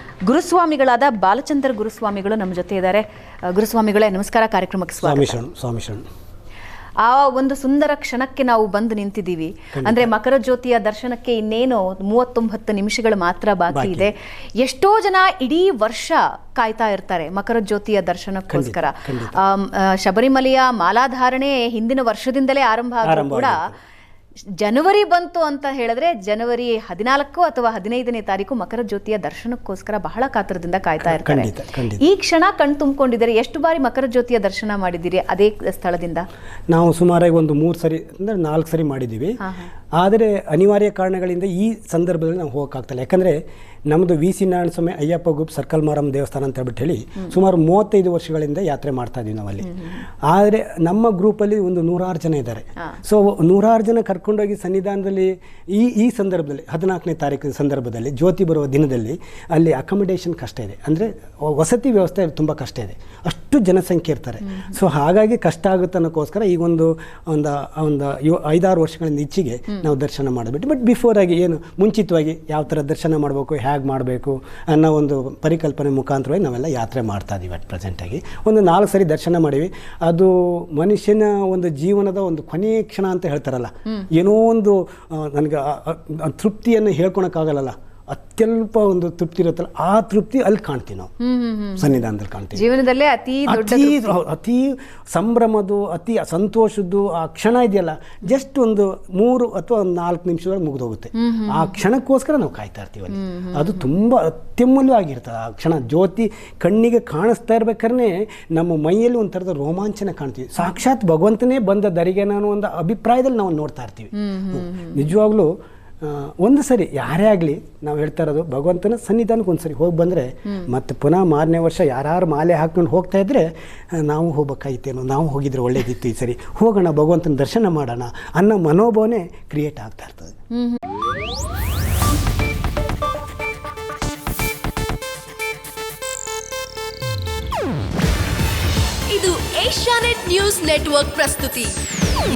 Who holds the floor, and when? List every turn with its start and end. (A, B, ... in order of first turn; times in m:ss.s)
0:00.3-0:05.4 A
0:05.0-0:06.0 B
0:07.0-0:23.6 A
0:09.7-0:10.1 B
0:13.7-0:14.1 B
0:18.5-0:19.4 B
0:23.0-0:23.8 B
0:24.6-0:36.3 A
0:31.0-0:32.0 B
0:36.7-0:39.4 B
0:40.0-1:31.1 B
1:31.2-1:31.9 A
1:31.8-1:32.6 B
1:32.6-1:34.2 A
1:33.5-2:10.3 B
1:41.2-1:41.7 A
1:43.2-1:43.7 A
1:54.2-1:55.1 A
2:19.1-2:21.8 C